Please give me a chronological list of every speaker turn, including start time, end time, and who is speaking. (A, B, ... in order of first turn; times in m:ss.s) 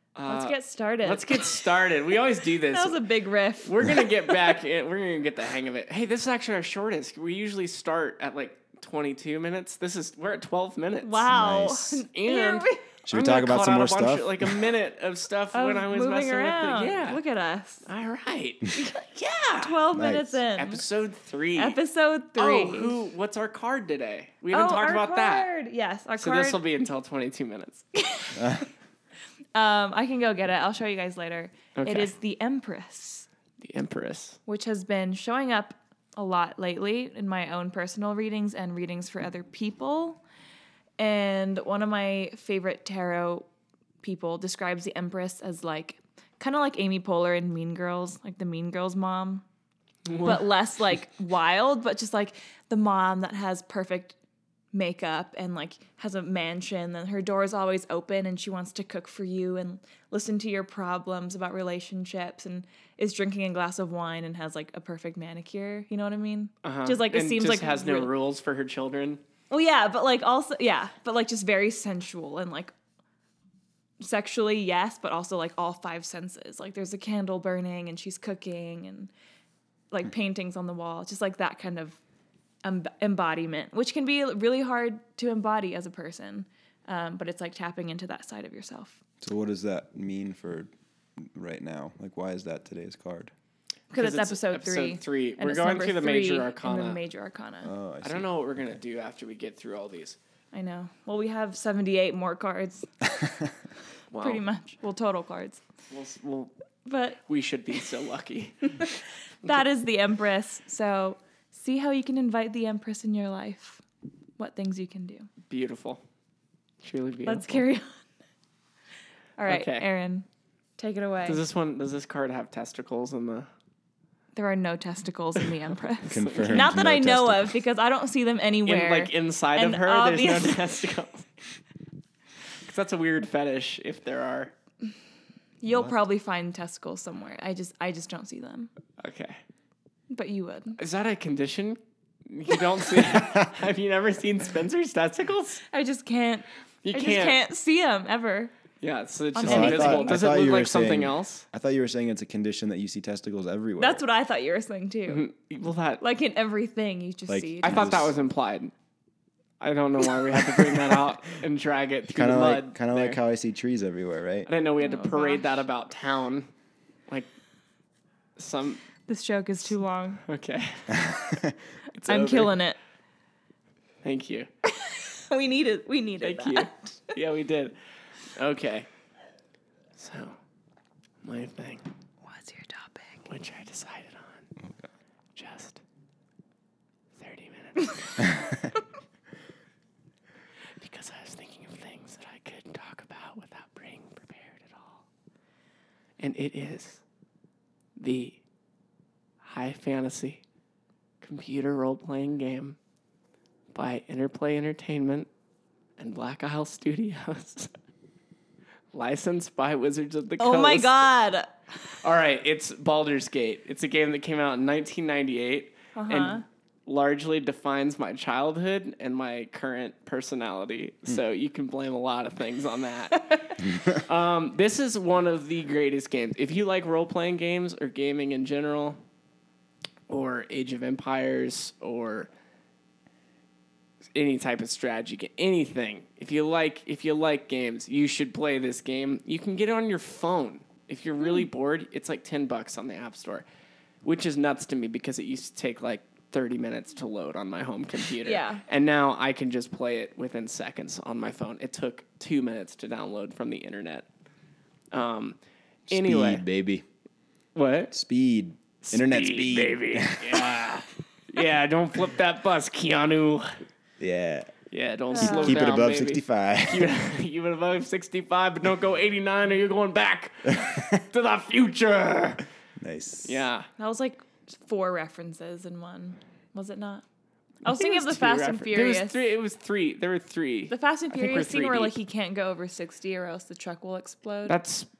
0:00.2-0:03.0 A
0:00.3-0:01.9 B
0:02.7-0:04.4 B
0:03.6-0:11.2 A
0:11.0-0:12.9 B
0:11.3-0:12.0 C
0:12.1-0:17.2 A
0:13.0-0:14.6 C
0:15.5-0:17.9 B
0:17.8-0:19.8 A
0:19.6-0:20.8 B
0:19.9-0:20.4 C
0:20.6-0:21.8 A
0:21.6-0:23.0 B
0:22.4-0:25.5 A
0:24.5-0:26.6 B
0:26.2-0:27.8 A
0:28.0-0:28.7 B
0:28.4-0:28.6 C
0:29.6-0:33.3 B
0:31.8-0:32.1 A
0:33.6-0:34.4 A
0:34.5-0:40.2 B
0:41.0-0:43.5 B
0:44.0-0:49.4 B
0:50.1-0:50.5 A
0:50.2-0:54.2 B
0:54.7-1:08.1 B
1:06.6-1:09.2 A
1:09.5-1:12.7 B
1:14.0-1:19.1 B
1:19.9-1:22.0 B
1:22.6-1:29.0 B
1:29.2-1:30.7 C
1:31.2-1:33.3 C
1:33.9-1:37.7 B
1:34.0-1:37.0 A
1:37.6-1:38.3 C
1:38.0-1:40.2 A
1:40.5-1:42.9 B
1:44.1-1:44.4 A
1:44.2-1:45.6 B
1:45.9-1:46.5 A
1:46.9-1:47.2 B
1:47.3-1:48.9 A
1:48.8-1:53.8 B
1:54.4-1:55.3 B
1:55.5-1:56.0 A
1:56.8-1:57.6 A
1:57.3-1:58.0 B
1:59.4-2:00.3 B
1:59.5-1:59.9 A
2:00.8-2:01.4 B
2:01.2-2:03.5 A
2:04.4-2:10.8 B
2:06.1-2:07.6 C
2:08.7-2:11.3 A
2:12.6-2:14.5 A
2:15.6-2:18.7 B
2:15.7-2:15.9 C
2:19.0-2:19.4 A
2:20.1-2:20.8 B
2:20.8-2:25.6 A
2:25.7-2:28.5 B
2:26.8-2:27.4 A
2:28.8-2:31.5 A
2:29.4-2:30.2 B
2:29.4-2:34.0 C
2:33.8-2:35.3 B
2:35.1-2:36.0 A
2:36.0-2:38.0 B
2:37.3-2:38.1 C
2:37.6-2:38.7 A
2:39.6-2:43.2 A
2:42.1-2:44.5 C
2:44.5-2:46.5 A
2:44.8-2:45.6 B
2:48.4-2:48.8 A
2:49.1-2:50.2 B
2:50.2-2:51.1 A
2:50.9-2:51.6 C
2:52.0-2:52.5 A
2:52.1-2:52.8 B
2:54.0-2:54.5 A
2:54.7-2:57.1 B
2:56.2-2:57.8 A
2:58.4-2:58.9 A
3:00.0-3:00.4 A
3:01.2-3:01.8 A
3:02.3-3:03.2 B
3:03.3-3:04.5 A
3:05.4-3:05.8 A
3:07.2-3:08.4 A
3:10.8-3:15.0 A
3:16.2-3:17.0 A
3:18.0-3:18.4 A
3:19.4-3:20.4 A
3:21.2-3:22.8 A
3:23.7-3:25.3 A
3:26.0-3:27.7 A
3:28.9-3:31.0 A
3:30.4-3:31.5 B
3:32.0-3:49.0 A
3:36.0-3:36.4 B
3:50.1-3:52.3 A
3:54.2-4:03.4 A
4:04.0-4:14.1 A
4:08.2-4:08.6 B
4:14.9-4:15.4 A
4:15.9-4:16.8 C
4:15.9-4:16.4 A
4:17.6-4:18.0 A
4:17.9-4:20.7 C
4:18.8-4:23.6 A
4:24.0-4:24.5 C
4:24.7-4:32.4 A
4:25.1-4:25.6 B
4:25.2-4:26.9 C
4:30.6-4:31.0 C
4:32.8-4:33.5 C
4:33.2-4:33.7 A
4:33.8-4:37.0 B
4:37.6-4:39.2 B
4:37.7-4:41.9 A
4:40.7-4:44.6 B
4:44.5-4:44.9 A